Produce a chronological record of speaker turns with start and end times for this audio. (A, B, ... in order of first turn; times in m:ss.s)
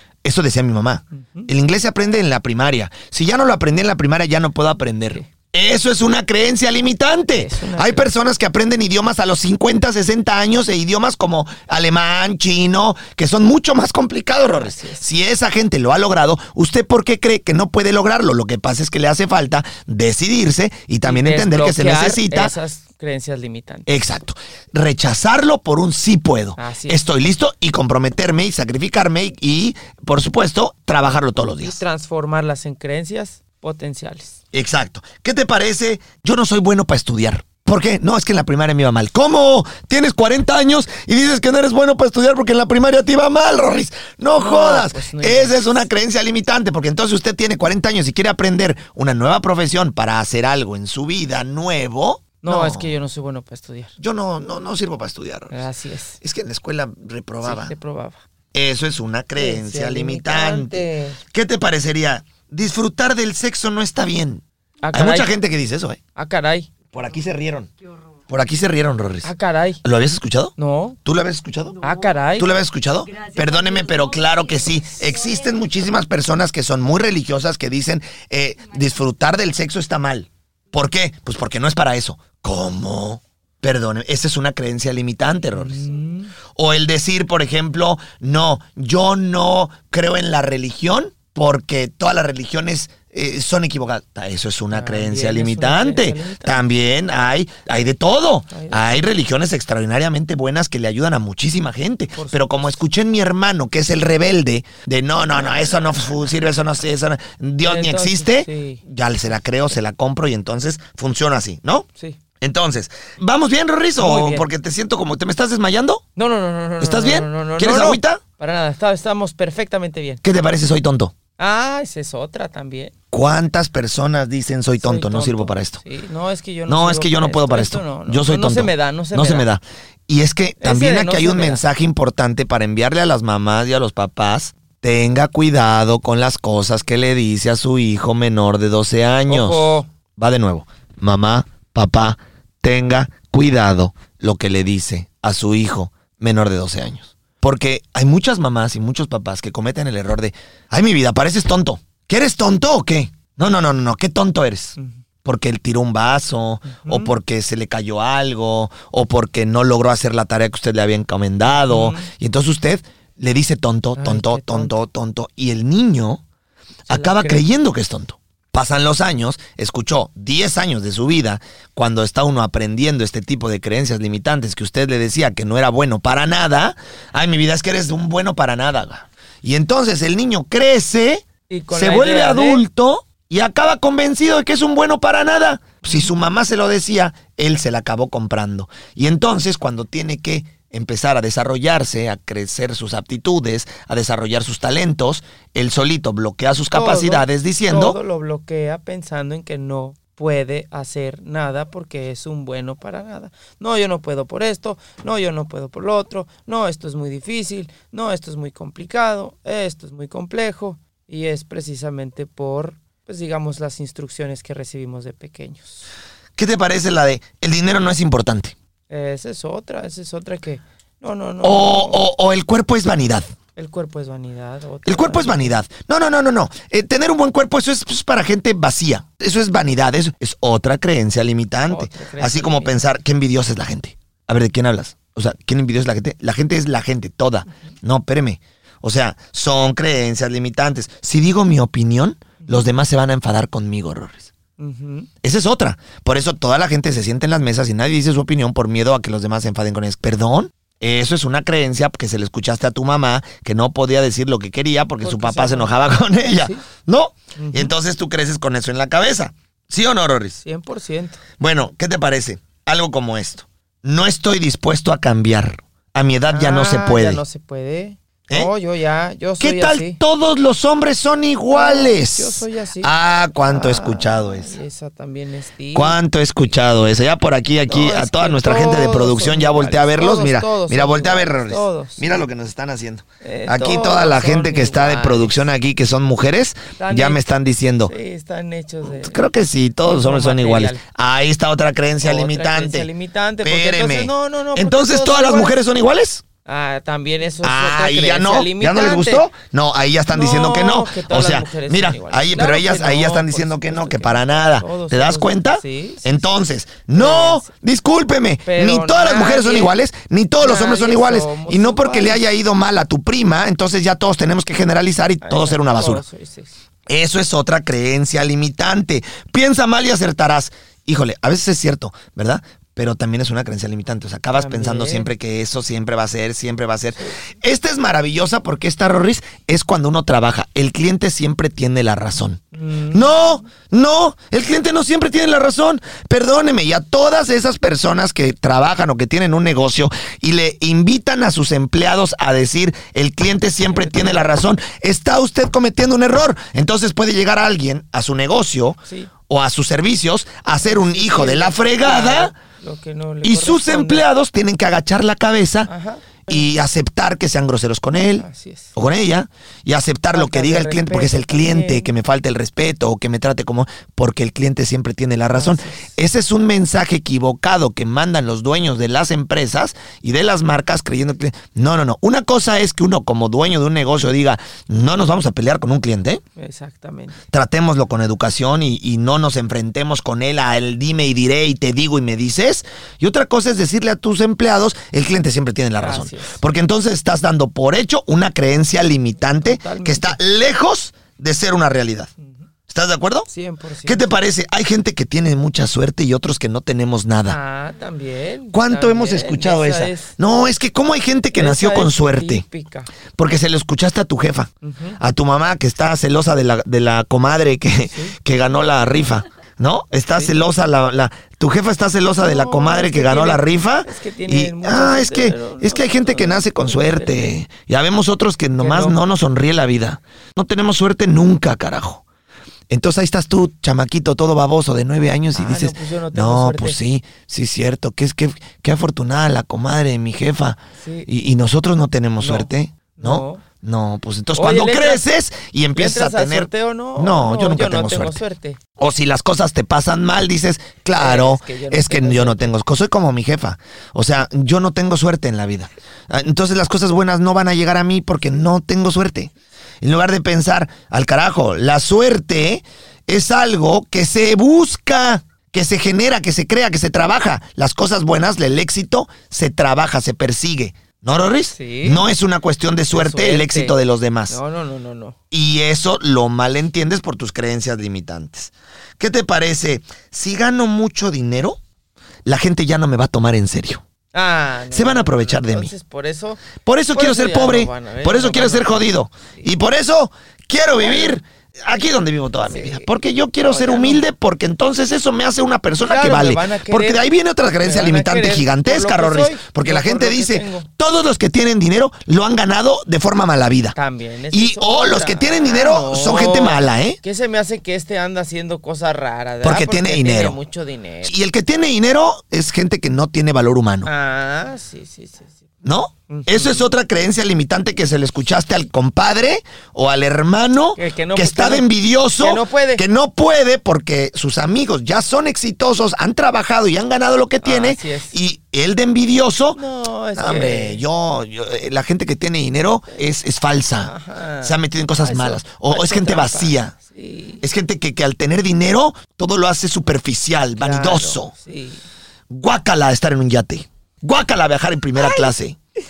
0:00.2-0:22.5 A
0:01.2-0:01.5 B
0:07.3-0:08.1 B
0:14.5-0:15.0 B
0:21.0-0:23.9 B
0:23.9-0:31.8 A
0:26.6-0:27.0 B
0:31.5-0:34.4 B
0:34.5-0:52.9 A
0:44.4-0:45.9 B
0:52.4-0:53.9 B
0:54.0-0:55.6 A
0:55.5-0:56.2 B
0:56.2-0:57.7 A
0:57.4-0:58.2 B
0:58.5-1:06.0 A
0:59.4-1:01.2 B
1:04.8-1:05.3 B
1:06.2-1:06.7 B
1:06.9-1:07.7 A
1:08.3-1:09.3 A
1:09.2-1:09.8 B
1:09.8-1:11.8 A
1:10.6-1:11.0 B
1:11.8-1:12.5 B
1:12.4-1:25.9 A
1:25.6-1:26.3 B
1:26.5-1:51.9 A
1:34.7-1:36.6 B
1:38.5-1:39.1 B
1:42.1-1:42.7 B
1:47.6-1:48.8 B
1:52.4-1:56.0 A
1:54.0-1:54.5 B
1:56.2-2:00.2 B
1:56.8-1:58.2 A
2:00.2-2:01.1 A
2:01.4-2:02.9 B
2:03.1-2:05.8 A
2:04.8-2:09.5 B
2:06.7-2:46.2 A
2:10.6-2:11.6 B
2:19.3-2:19.9 B
2:36.7-2:37.1 B
2:41.5-2:42.1 B
2:44.0-2:44.8 B
2:46.9-3:18.0 A
2:46.9-2:47.4 B
3:01.5-3:02.6 B
3:16.7-3:35.9 B
3:36.4-3:38.6 A
3:38.9-3:42.0 B
3:41.4-3:43.3 A
3:43.6-3:45.6 B
3:44.9-4:04.3 A
3:51.7-3:52.8 B
4:04.6-4:05.1 B
4:05.2-4:20.4 A
4:15.0-4:15.7 B
4:16.2-4:16.6 B
4:17.4-4:17.7 B
4:20.4-4:21.2 B
4:21.4-4:27.2 A
4:26.3-4:30.0 B
4:29.4-4:34.6 A
4:31.5-4:32.9 B
4:33.5-4:36.0 B
4:35.7-4:47.9 A
4:37.7-4:42.1 B
4:43.2-4:45.5 B
4:46.8-4:47.2 B
4:47.8-4:49.2 B
4:49.0-4:52.9 A
4:49.8-4:50.8 B
4:52.0-4:55.6 B
4:53.4-4:56.2 A
4:56.5-4:59.3 B
4:57.4-5:16.0 A
5:00.1-5:06.2 B
5:06.9-5:07.5 B
5:08.4-5:09.7 B
5:10.4-5:12.2 B
5:15.2-5:16.6 B
5:16.9-5:52.3 A
5:24.3-5:25.1 B
5:32.5-5:33.4 B
5:43.7-5:44.2 B
5:48.8-5:49.1 B
5:50.6-5:54.0 B
5:53.2-5:55.7 A
5:55.7-5:56.5 B
5:56.3-6:16.2 A
5:58.2-5:58.7 B
6:00.1-6:01.9 B
6:05.3-6:05.9 B
6:16.4-6:17.2 B
6:17.3-6:32.1 A
6:25.8-6:26.4 B
6:29.4-6:30.2 B
6:32.7-6:33.3 A
6:33.3-6:34.1 B
6:33.8-6:37.4 A
6:37.3-6:40.2 B
6:38.5-6:42.4 A
6:41.4-6:42.9 B
6:43.2-7:02.0 A
6:44.6-6:45.0 B
6:50.1-6:50.4 B
6:52.2-6:57.4 B
6:58.6-6:59.0 B
7:02.7-7:18.2 A
7:05.3-7:06.8 B
7:10.8-7:11.1 B
7:12.2-7:13.4 B
7:14.4-7:15.1 B
7:15.8-7:18.6 B
7:18.8-7:44.4 A
7:21.0-7:22.6 B
7:41.5-7:42.0 B
7:42.9-7:43.8 B
7:44.3-7:45.2 B
7:45.3-7:51.6 A
7:52.2-7:53.8 A
7:54.1-7:59.4 B
7:54.7-7:55.7 A
7:56.6-8:13.8 A
8:00.8-8:01.2 B
8:02.5-8:02.9 B
8:03.4-8:04.0 B
8:05.8-8:07.0 B
8:07.6-8:10.7 B
8:13.8-8:21.1 B
8:14.3-8:17.0 A
8:19.4-8:20.4 A
8:21.0-8:23.9 A
8:23.8-8:25.4 B
8:25.6-8:39.6 A
8:26.1-8:26.7 B
8:30.8-8:31.7 B
8:32.2-8:32.8 B
8:37.4-8:38.2 B
8:39.6-8:40.8 B
8:40.2-8:46.7 A
8:43.8-8:47.4 B
8:47.4-8:51.3 A
8:50.6-8:51.8 B
8:52.3-8:55.6 A
8:55.0-8:55.3 B